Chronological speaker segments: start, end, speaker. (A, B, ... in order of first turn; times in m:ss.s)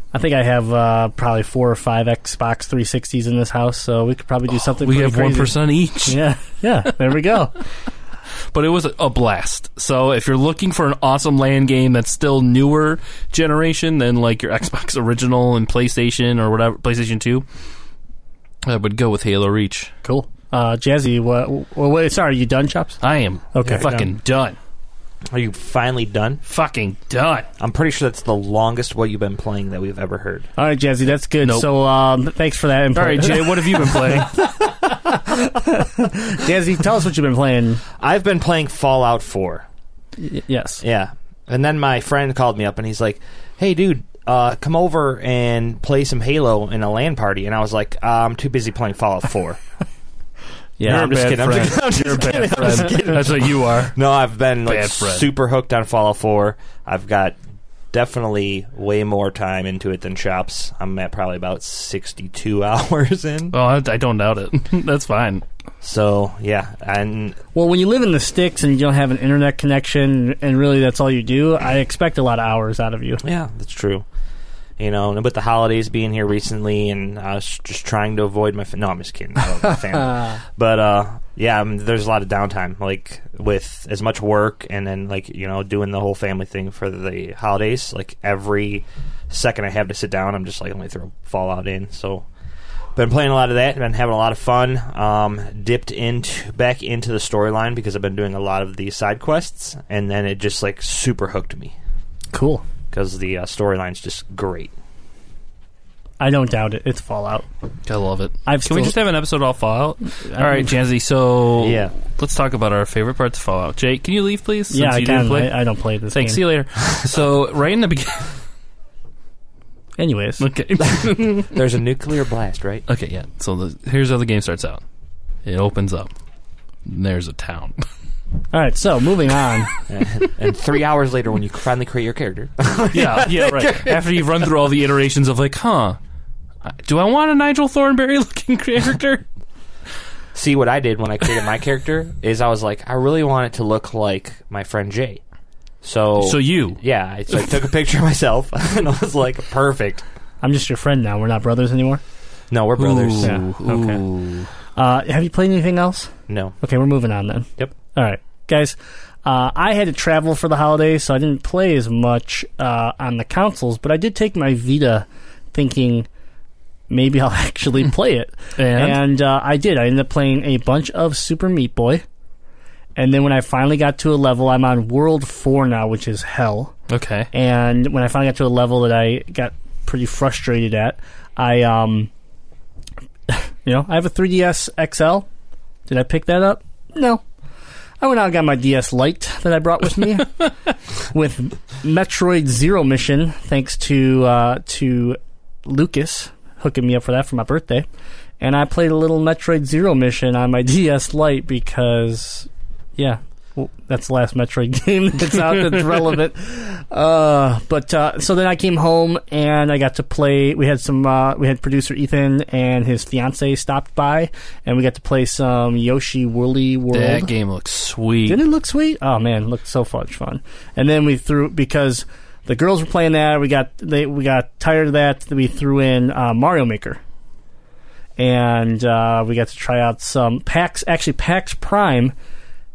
0:00.1-0:05.5 A
0:04.8-0:06.2 B
0:06.0-0:07.6 A
0:08.5-0:17.4 B
0:18.6-0:19.9 B
0:20.0-0:23.0 A
0:23.0-0:24.6 B
0:23.5-0:23.8 A
0:23.6-0:24.1 C
0:25.3-0:26.4 C
0:26.4-0:27.5 B
0:27.6-0:30.5 C
0:30.6-0:37.8 A
0:31.4-0:31.7 B
0:32.9-0:34.5 B
0:38.0-0:39.6 C
0:40.2-0:40.8 A
0:40.8-0:49.6 C
0:50.8-0:51.8 A
0:50.8-0:54.0 B
0:50.8-0:57.4 C
0:54.6-0:55.3 B
0:57.9-1:03.5 C
1:03.5-1:05.4 B
1:05.8-1:07.4 C
1:07.5-1:13.2 A
1:13.2-1:14.0 C
1:14.8-1:32.2 C
1:32.9-1:41.7 C
1:42.3-1:42.6 A
1:42.9-1:44.7 C
1:46.2-1:47.4 A
1:47.9-1:55.5 B
1:48.4-1:48.9 A
1:50.2-1:50.7 A
1:51.6-1:51.9 C
1:54.7-1:56.4 A
1:56.1-1:58.4 B
2:00.0-2:00.4 A
2:00.4-2:01.6 B
2:00.9-2:02.8 C
2:02.9-2:04.8 B
2:05.4-2:06.1 B
2:06.8-2:07.8 B
2:08.5-2:09.7 A
2:09.9-2:14.3 C
2:12.9-2:16.0 B
2:16.6-2:19.2 B
2:20.3-2:25.2 C
2:25.8-2:30.0 C
2:26.2-2:26.8 B
2:30.4-2:32.0 A
2:32.5-2:33.4 C
2:32.8-2:34.5 B
2:33.2-2:34.0 A
2:34.8-2:46.1 A
2:36.3-2:36.5 C
2:46.9-2:52.0 A
2:48.6-2:49.0 B
2:53.0-2:56.7 A
2:56.9-2:57.3 B
2:57.3-3:02.1 A
3:03.3-3:05.3 A
3:05.9-3:07.2 A
3:08.0-3:10.5 A
3:11.0-3:17.8 A
3:18.4-3:37.3 A
3:36.9-3:38.4 B
3:38.3-3:47.0 A
3:48.2-3:52.1 A